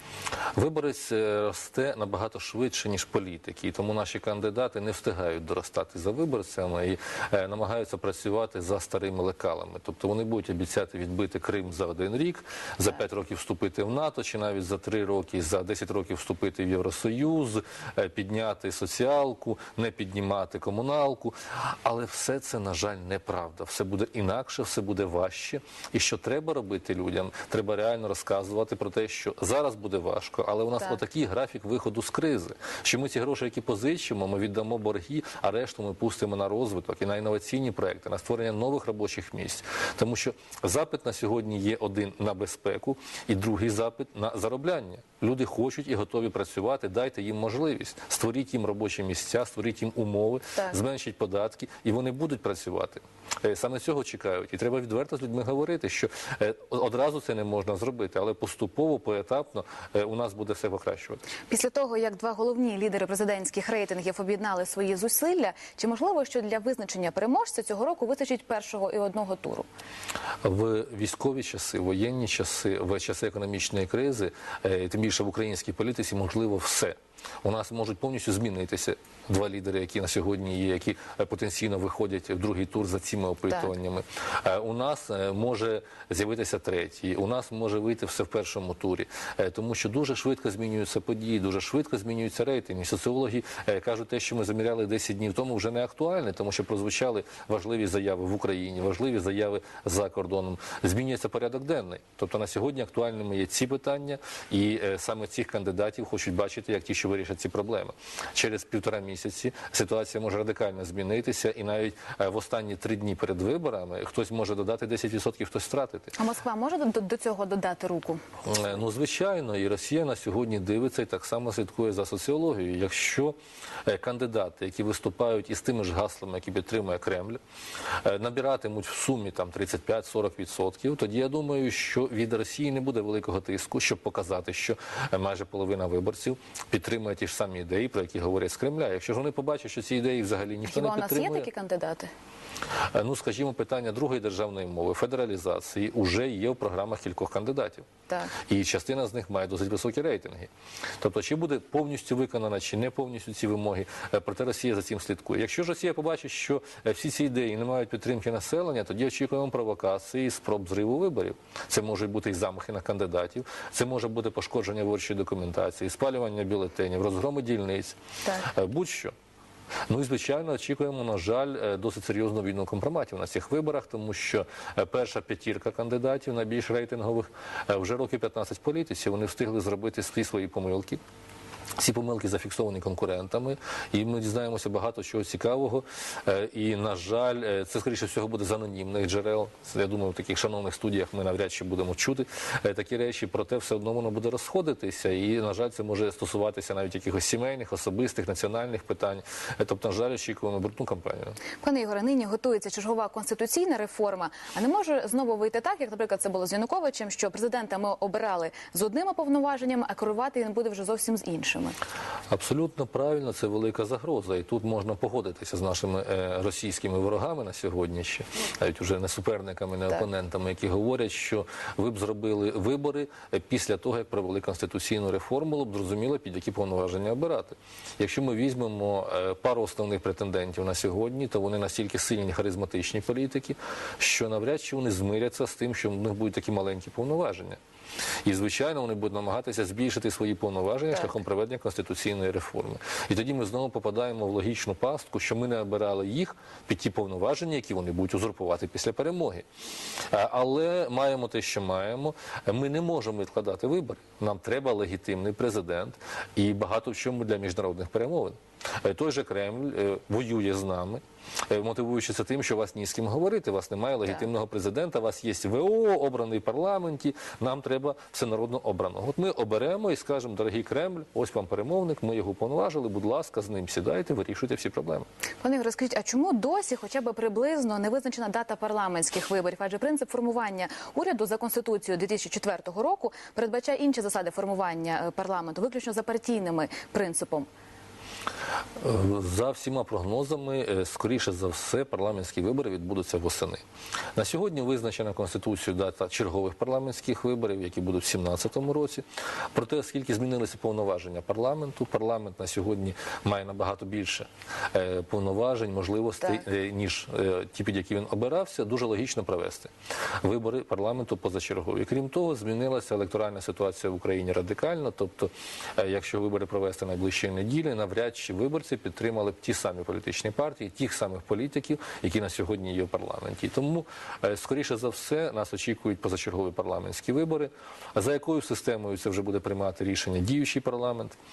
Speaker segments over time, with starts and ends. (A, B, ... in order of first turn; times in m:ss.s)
0:00.6-1:01.2 A
1:01.5-1:09.7 B
1:10.4-1:56.2 A
1:56.2-1:58.2 B
1:58.5-2:07.4 A
2:08.0-2:21.5 A
2:20.7-2:22.1 B
2:22.9-2:27.9 A
2:28.5-2:48.0 A
2:48.2-2:48.5 B
2:48.5-2:49.1 A
2:49.9-3:01.0 A
3:01.8-3:21.4 A
3:21.6-3:31.8 B
3:32.3-3:57.6 A
3:58.2-4:09.4 A
4:10.1-4:35.1 A
4:35.4-4:47.5 B
4:48.8-4:53.6 A
4:54.2-5:09.7 A
5:10.2-5:31.2 A